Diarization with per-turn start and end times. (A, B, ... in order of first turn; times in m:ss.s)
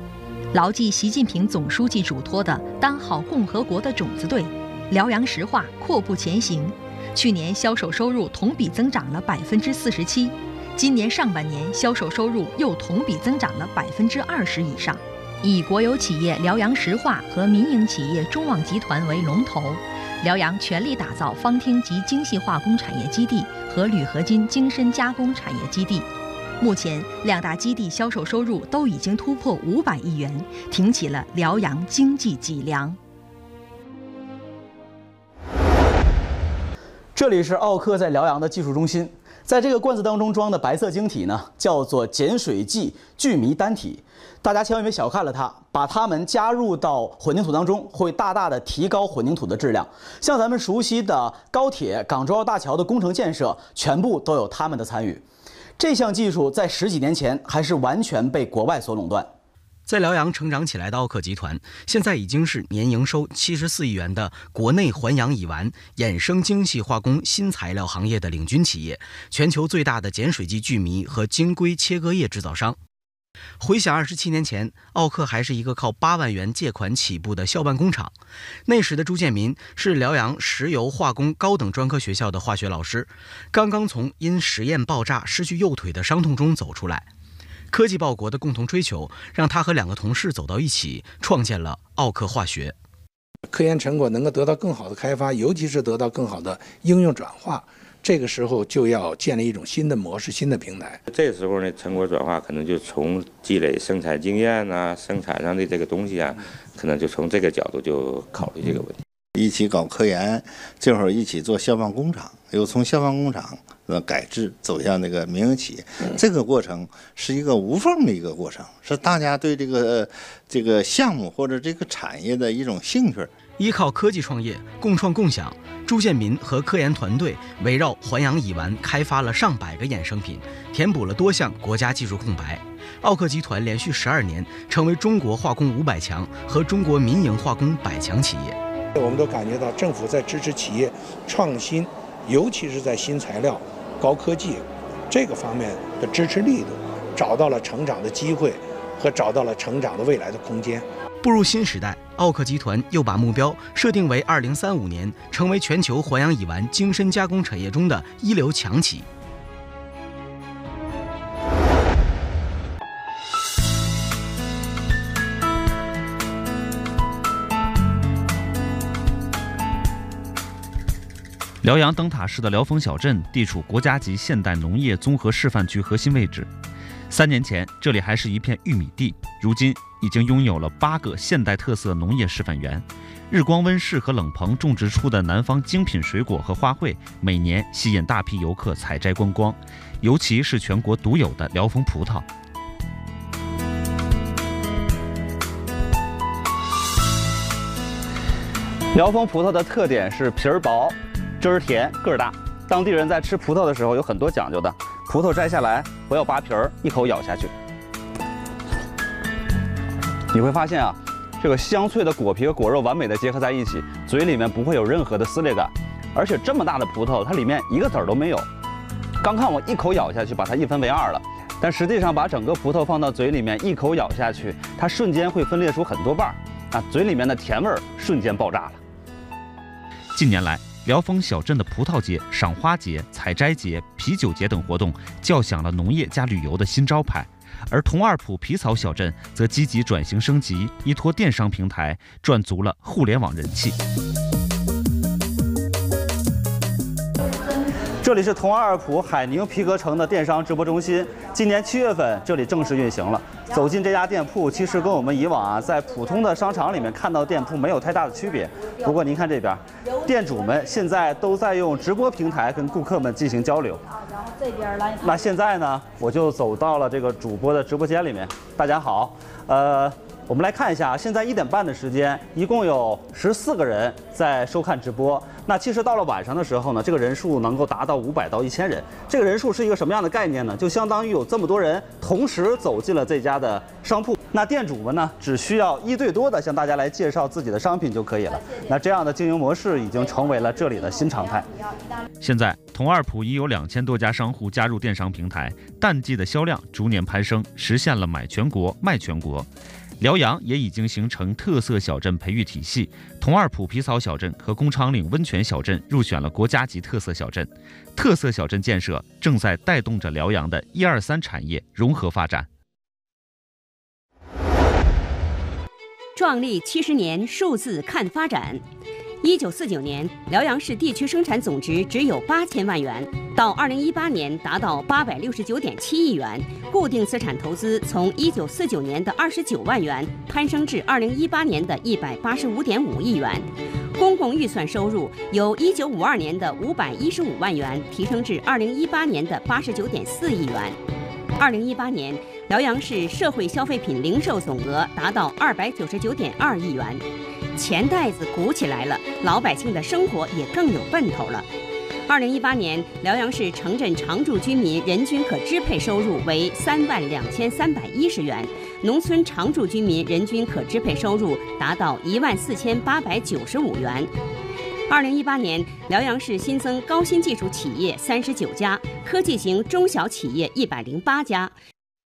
0:00.5-0:33.0 A
0:37.2-0:55.2 B
0:55.8-0:59.3 B
0:59.9-1:12.8 C
1:13.6-1:18.2 C
1:18.7-1:27.1 C
1:27.7-1:32.8 C
1:33.5-1:41.0 D
1:41.1-1:49.0 E
1:49.4-2:03.3 F
2:03.6-2:18.6 C
2:19.0-2:30.9 D
2:31.2-2:39.1 C
2:51.6-2:56.5 G
2:57.1-3:12.3 G
3:18.9-3:27.5 H
3:30.3-3:38.5 H
3:39.2-3:48.8 H
3:50.2-4:03.8 G
4:08.0-4:23.8 H
4:25.0-4:51.5 H
4:52.2-4:59.5 G
5:00.0-5:12.5 G
5:16.2-5:18.6 I
5:19.2-5:40.8 I
5:41.4-5:47.0 I
5:47.6-5:51.5 I
5:52.1-6:04.1 I
6:04.9-6:11.5 I